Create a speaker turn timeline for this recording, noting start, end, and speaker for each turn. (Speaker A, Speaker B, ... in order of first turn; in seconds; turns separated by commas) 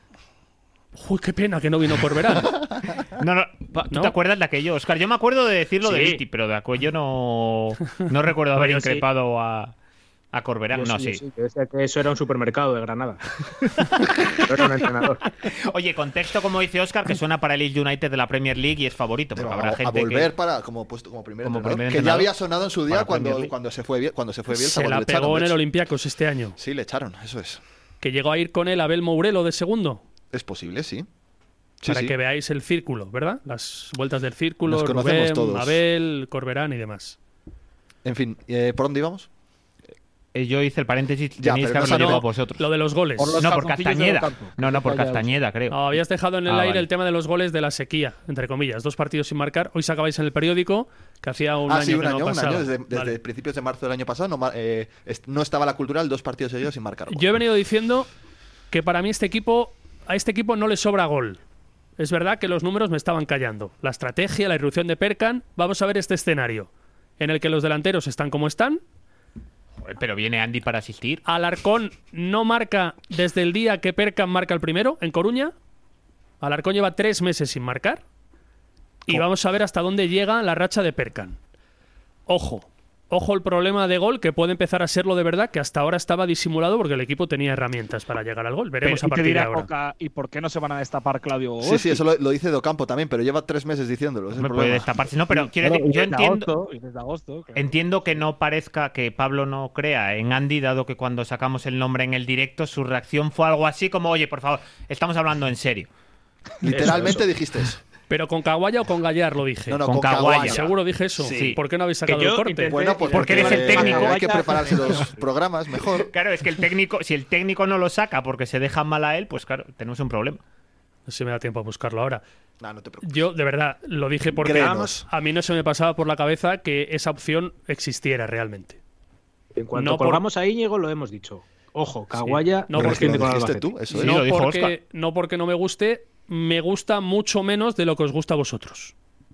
Speaker A: 0.9-2.6, Speaker B: 3.1-9.7, Speaker C: 5.8-6.2, Speaker C: 8.6-9.0, Speaker B: 10.3-11.2, Speaker C: 10.7-13.2, Speaker B: 13.8-14.4, Speaker C: 14.4-15.2, Speaker B: 15.4-20.3, Speaker D: 19.3-25.6, Speaker B: 21.4-22.3, Speaker B: 22.9-23.5, Speaker A: 24.5-26.6, Speaker D: 26.6-27.6, Speaker A: 28.0-30.0, Speaker D: 30.3-31.1, Speaker D: 31.8-32.1, Speaker A: 31.9-37.2, Speaker D: 34.7-35.8, Speaker D: 38.0-39.3, Speaker B: 40.3-42.6, Speaker D: 41.4-42.2, Speaker A: 41.9-43.4, Speaker E: 43.2-45.3, Speaker B: 43.4-46.9, Speaker A: 45.7-53.1, Speaker D: 51.6-57.3, Speaker A: 57.1-58.1, Speaker A: 58.7-61.4, Speaker A: 62.0-68.8, Speaker B: 69.8-71.2, Speaker A: 71.2-75.5, Speaker A: 76.4-78.0, Speaker A: 79.1-81.4, Speaker A: 82.3-89.7, Speaker E: 88.8-92.0, Speaker D: 91.6-94.9, Speaker B: 94.4-96.5, Speaker E: 95.3-97.7, Speaker B: 97.5-105.9, Speaker D: 106.6-107.8, Speaker C: 106.7-107.3, Speaker A: 108.1-112.7, Speaker D: 109.7-110.7, Speaker B: 109.9-110.7, Speaker D: 111.2-111.6, Speaker B: 111.3-111.6, Speaker C: 112.0-114.0, Speaker D: 112.6-116.1, Speaker B: 113.1-114.2, Speaker E: 113.2-115.1, Speaker B: 116.1-120.4, Speaker A: 121.1-122.2, Speaker D: 122.6-123.3, Speaker A: 123.0-128.8, Speaker D: 124.4-125.0, Speaker C: 124.5-124.9, Speaker C: 129.5-133.8, Speaker A: 129.7-130.2, Speaker A: 132.2-133.2, Speaker D: 132.7-134.2, Speaker A: 133.9-138.9, Speaker B: 133.9-134.7